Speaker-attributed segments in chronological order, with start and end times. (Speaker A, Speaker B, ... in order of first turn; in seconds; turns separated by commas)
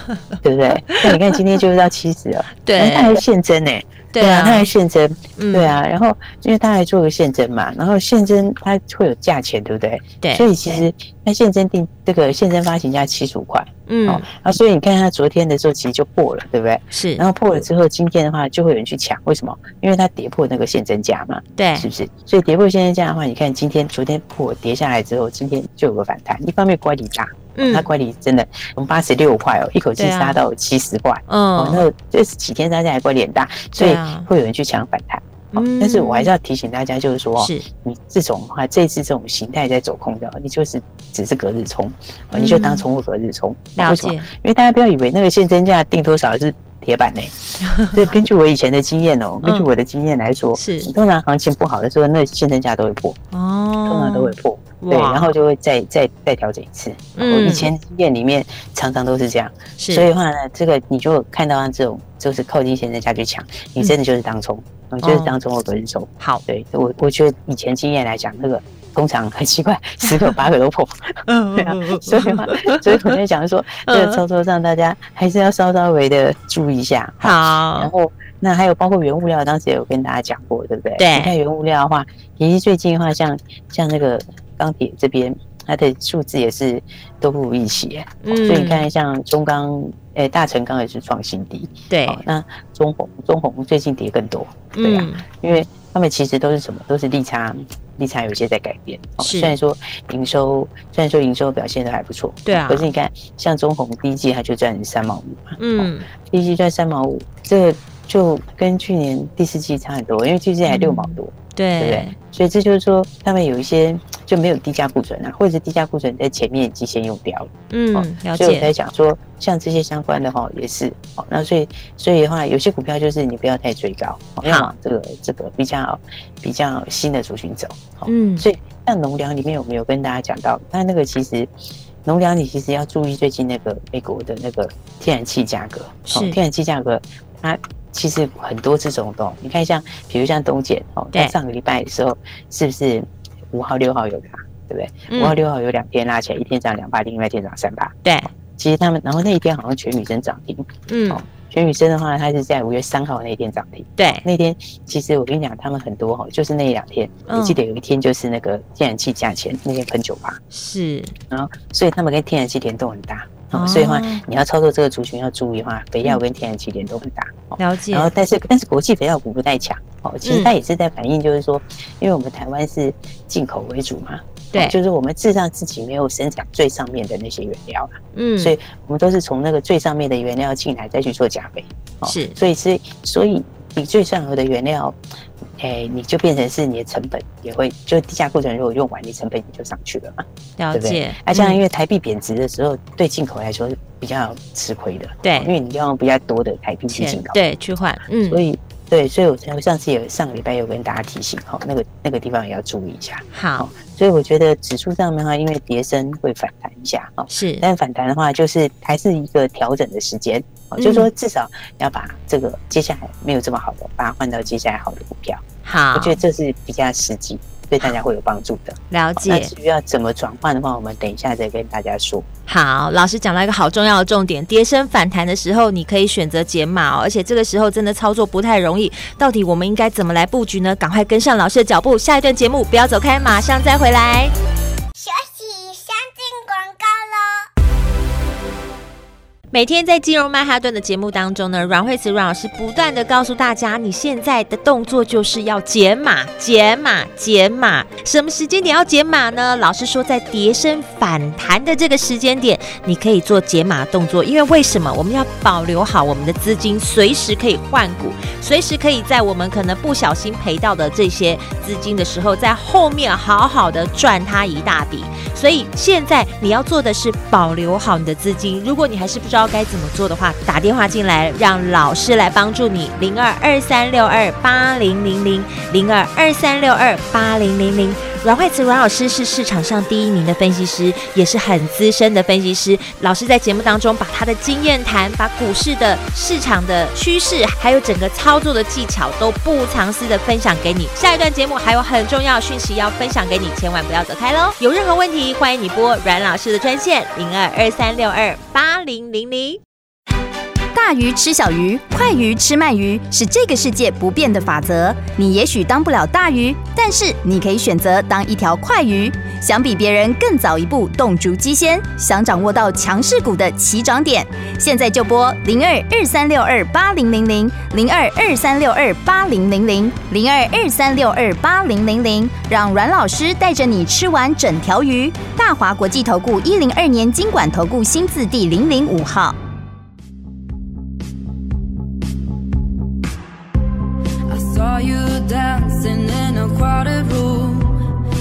Speaker A: 0.4-53.2, Speaker B: 0.9-1.2, Speaker B: 2.6-3.2, Speaker B: 4.1-4.7, Speaker B: 5.4-5.8, Speaker B: 10.2-10.5, Speaker B: 13.9-14.3, Speaker B: 16.9-17.2, Speaker B: 21.6-21.9, Speaker B: 27.6-27.9, Speaker B: 30.0-30.4, Speaker B: 31.3-31.8, Speaker B: 33.8-34.3, Speaker B: 35.5-36.3, Speaker B: 37.4-37.6, Speaker B: 42.3-42.9, Speaker B: 43.8-44.3, Speaker B: 47.7-48.1, Speaker B: 50.6-50.9, Speaker B: 53.3-55.3, Speaker A: 53.9-131.5, Speaker B: 57.2-57.7, Speaker B: 59.8-60.1, Speaker B: 65.0-65.3, Speaker B: 71.3-73.2, Speaker B: 73.9-74.2, Speaker B: 77.2-77.9, Speaker B: 81.0-81.3, Speaker B: 88.2-88.8, Speaker B: 91.9-92.2, Speaker B: 94.8-95.2, Speaker B: 99.2-99.5, Speaker B: 102.5-102.9, Speaker B: 105.6-106.1, Speaker B: 110.7-112.1, Speaker B: 117.7-118.7, Speaker B: 124.4-124.7, Speaker B: 128.1-128.4, Speaker A: 132.1-147.9, Speaker B: 136.1-136.4, Speaker B: 145.1-145.4, Speaker B: 148.1-148.3, Speaker A: 148.6-160.4, Speaker B: 150.9-151.2, Speaker B: 154.0-154.2, Speaker B: 157.3-157.6, Speaker B: 160.5-161.1, Speaker A: 161.3-185.0, Speaker B: 163.5-164.2, Speaker B: 167.6-168.1, Speaker B: 170.2-170.5, Speaker B: 178.2-178.6, Speaker B: 182.1-182.4, Speaker A: 185.6-197.4, Speaker B: 190.6-191.6, Speaker B: 195.2-195.5, Speaker B: 196.9-198.4, Speaker A: 198.3-222.3, Speaker B: 203.3-203.7, Speaker B: 207.3-207.7, Speaker B: 210.8-211.1, Speaker B: 215.7-216.2, Speaker B: 218.9-219.5, Speaker B: 222.5-234.3, Speaker C: 235.0-237.5, Speaker B: 239.5-299.6, Speaker D: 300.7-329.4, Speaker E: 334.3-337.8